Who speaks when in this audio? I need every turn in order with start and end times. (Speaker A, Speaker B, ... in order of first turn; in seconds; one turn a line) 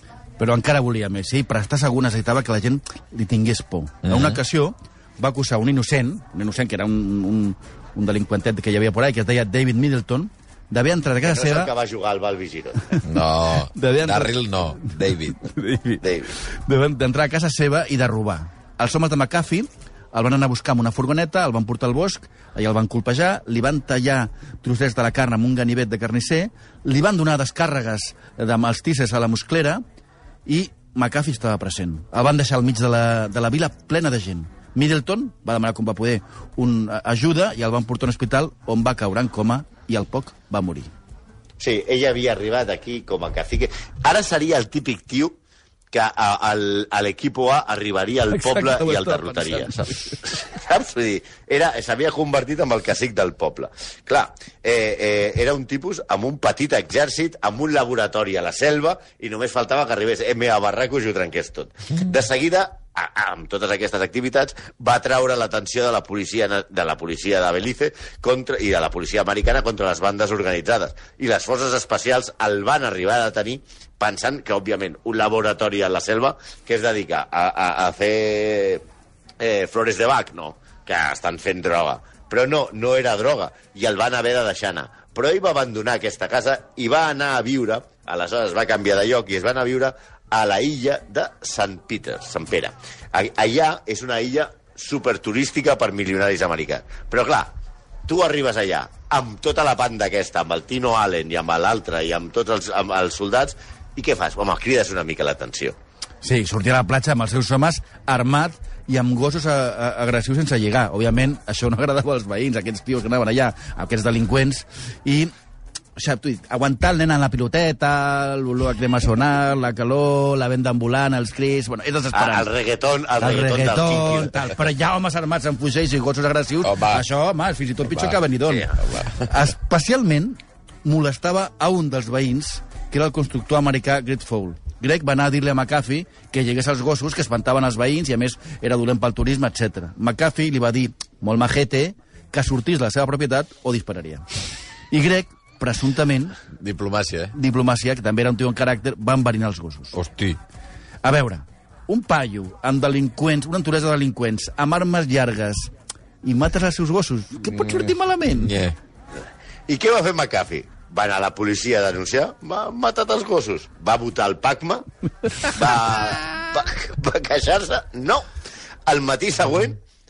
Speaker A: 0.4-11.7
Speaker B: 4.1-4.4
Speaker C: 11.2-13.0
Speaker B: 13.0-15.4
Speaker A: 13.7-29.8
Speaker C: 16.0-16.3
Speaker A: 30.5-40.9
Speaker C: 41.6-45.4
Speaker C: 45.9-78.8
Speaker A: 48.3-50.2
Speaker C: 79.4-97.5
Speaker C: 98.1-105.8
Speaker A: 106.2-115.3
Speaker A: 116.0-122.5
Speaker C: 122.1-124.5
Speaker A: 123.2-144.2
Speaker B: 126.6-127.0
Speaker B: 127.9-128.2
Speaker C: 128.5-128.8
Speaker A: 144.9-146.4
Speaker B: 146.6-147.3
Speaker A: 147.3-149.9
Speaker B: 149.9-150.4
Speaker A: 151.0-155.7
Speaker A: 156.2-158.5
Speaker B: 157.6-158.8
Speaker C: 159.7-164.8
Speaker C: 165.4-168.3
Speaker C: 168.9-169.8